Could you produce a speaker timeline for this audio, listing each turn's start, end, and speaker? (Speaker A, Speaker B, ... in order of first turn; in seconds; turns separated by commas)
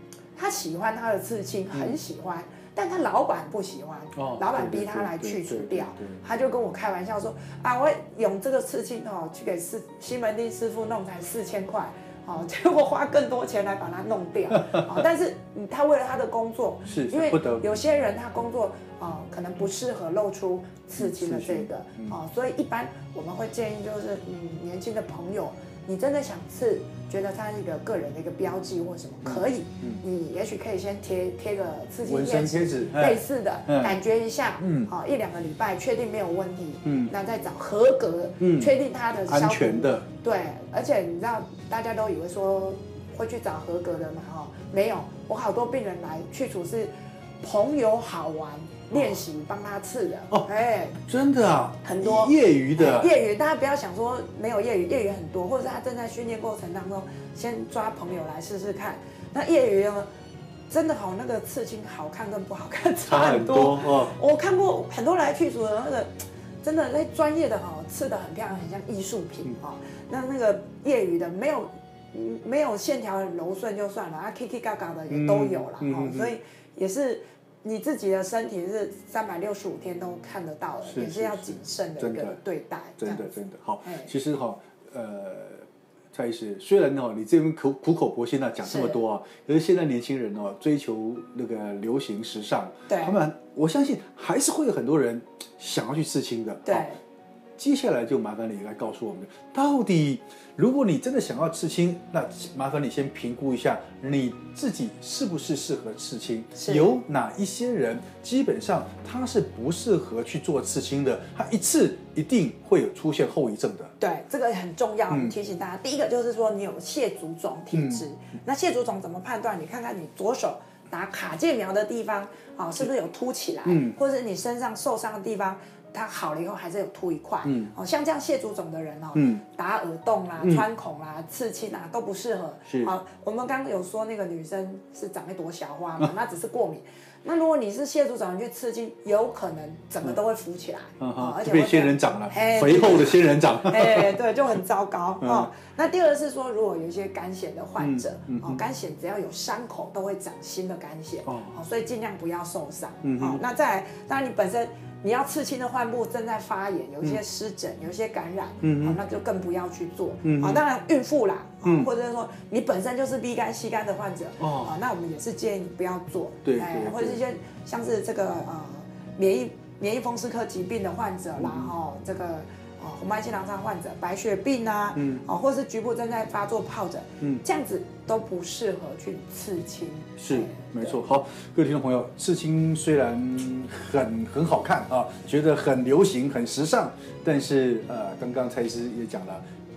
Speaker A: 0.3-51.0, Speaker B: 1.7-2.0, Speaker B: 4.1-6.2, Speaker B: 16.9-17.8, Speaker B: 21.0-22.1, Speaker B: 29.2-30.0, Speaker B: 32.0-34.0, Speaker B: 34.6-34.9, Speaker B: 36.8-37.1, Speaker B: 38.4-38.7, Speaker B: 39.3-40.0, Speaker B: 51.0-53.1, Speaker A: 51.8-60.1, Speaker A: 60.7-83.3, Speaker B: 63.0-64.1, Speaker B: 75.1-76.3, Speaker B: 80.8-82.4, Speaker B: 83.0-96.9, Speaker A: 83.8-84.1, Speaker A: 88.6-89.0, Speaker A: 92.9-93.2, Speaker A: 96.6-97.0, Speaker B: 97.6-113.9, Speaker A: 106.6-106.9, Speaker A: 114.0-181.0, Speaker B: 117.7-118.0, Speaker B: 123.7-124.0, Speaker B: 127.4-127.7, Speaker B: 129.1-129.4, Speaker B: 132.7-132.9, Speaker B: 141.0-144.2, Speaker B: 145.2-145.5, Speaker B: 147.8-148.6, Speaker B: 151.3-151.5, Speaker B: 153.0-153.4, Speaker B: 158.6-159.0, Speaker B: 160.2-160.6, Speaker B: 161.6-161.9, Speaker B: 164.4-164.7, Speaker B: 166.4-167.2, Speaker B: 171.4-171.7, Speaker B: 174.9-175.2, Speaker B: 180.2-189.4